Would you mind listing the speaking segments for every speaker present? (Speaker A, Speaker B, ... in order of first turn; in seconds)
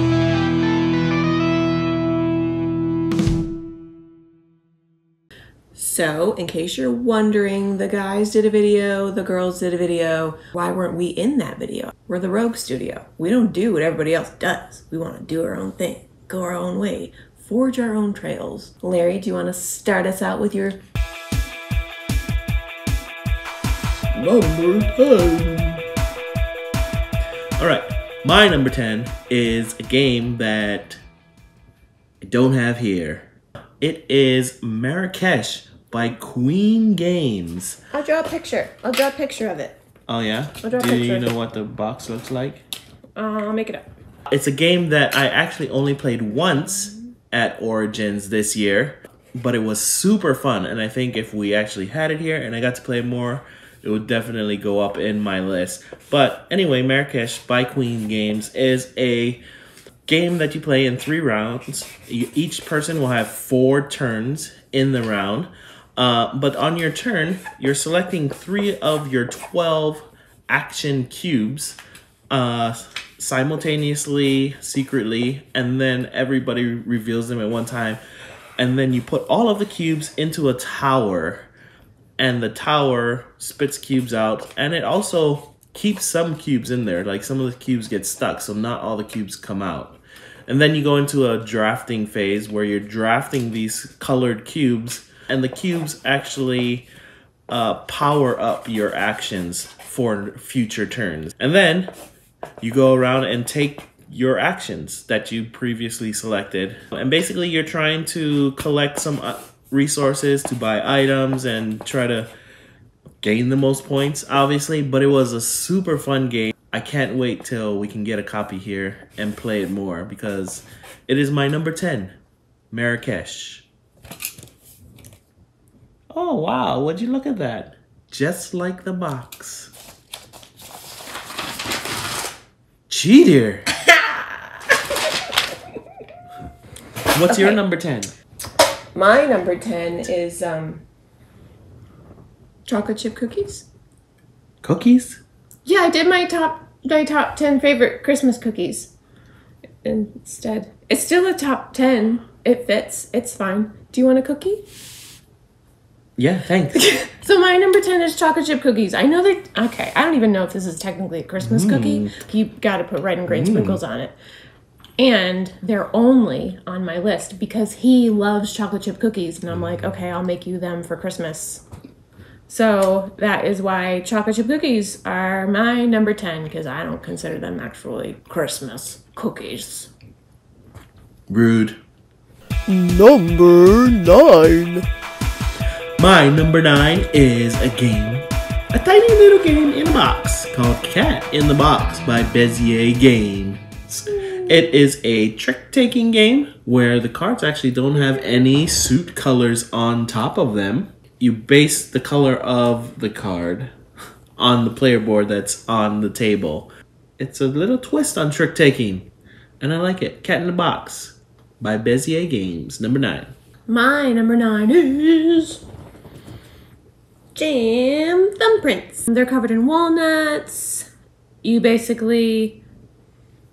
Speaker A: 5.8-20.8, 37.9-39.8, 40.6-41.3, 43.2-43.8, 133.9-134.8, 137.3-137.6, 138.9-140.8, 142.7-143.7, 145.7-148.9, 149.8-154.6, 156.8-164.2, 165.0-171.6, 172.5-179.9, 213.7-215.6, 217.3-220.9, 221.4-222.6
Speaker B: 24.2-25.8, 27.6-31.0, 32.2-33.3, 33.8-37.8, 40.1-42.6, 44.3-59.4, 60.1-71.8, 72.3-78.0, 78.6-81.5, 82.2-96.9, 97.5-101.9, 102.6-112.3, 113.2-122.1, 122.7-123.7, 126.1-129.7, 132.9-133.7, 137.1-138.1, 144.6-145.2, 156.2-156.9, 161.4-162.1, 163.3-163.8, 181.3-181.8, 186.0-203.7, 204.4-209.1, 209.6-213.3
Speaker C: 182.7-184.9